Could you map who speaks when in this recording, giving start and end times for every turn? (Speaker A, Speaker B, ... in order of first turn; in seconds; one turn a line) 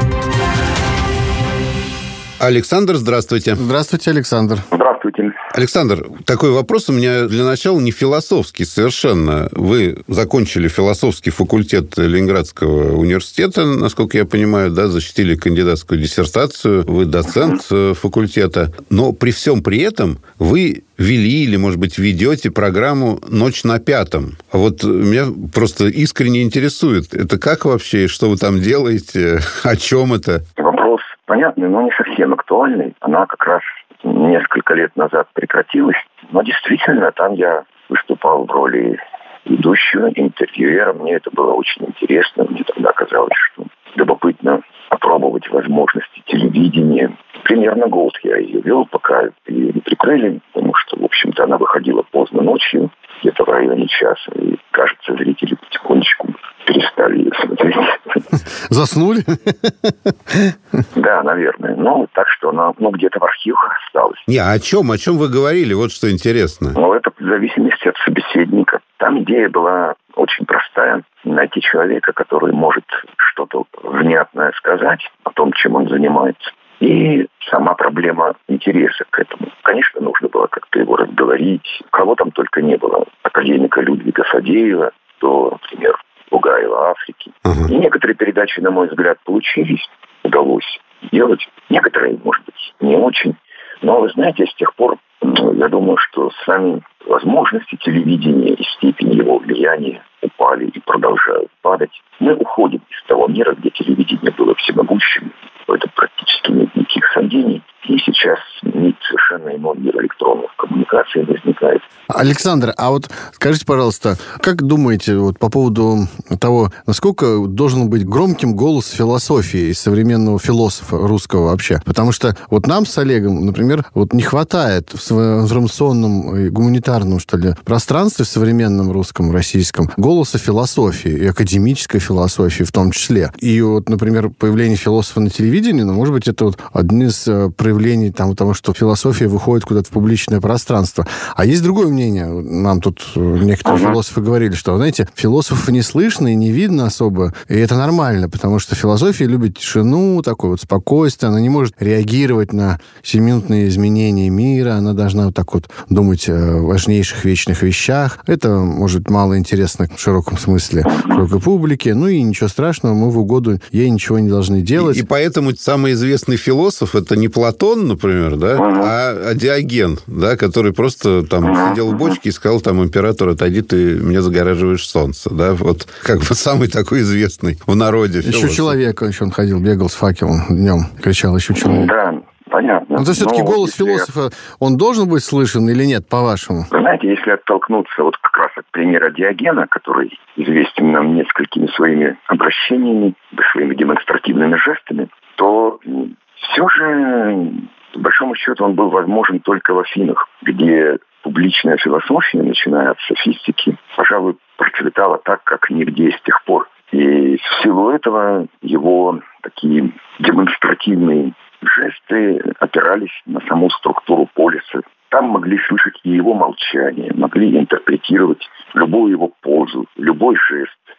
Speaker A: 2.4-3.6
Speaker B: 3.5-4.7
Speaker C: 4.7-5.4
Speaker A: 5.5-30.4
Speaker C: 30.6-58.2
Speaker B: 58.7-60.5
Speaker C: 60.9-64.2
Speaker A: 64.3-66.8
Speaker C: 66.7-111.8
Speaker B: 112.1-165.0
Speaker C: 143.6-144.0
Speaker C: 160.9-161.2
Speaker A: 164.8-178.7
Speaker C: 168.6-168.9
Speaker C: 171.4-172.2
Speaker B: 178.2-181.9
Speaker C: 181.5-184.1
Speaker B: 183.0-186.7
Speaker C: 186.7-220.8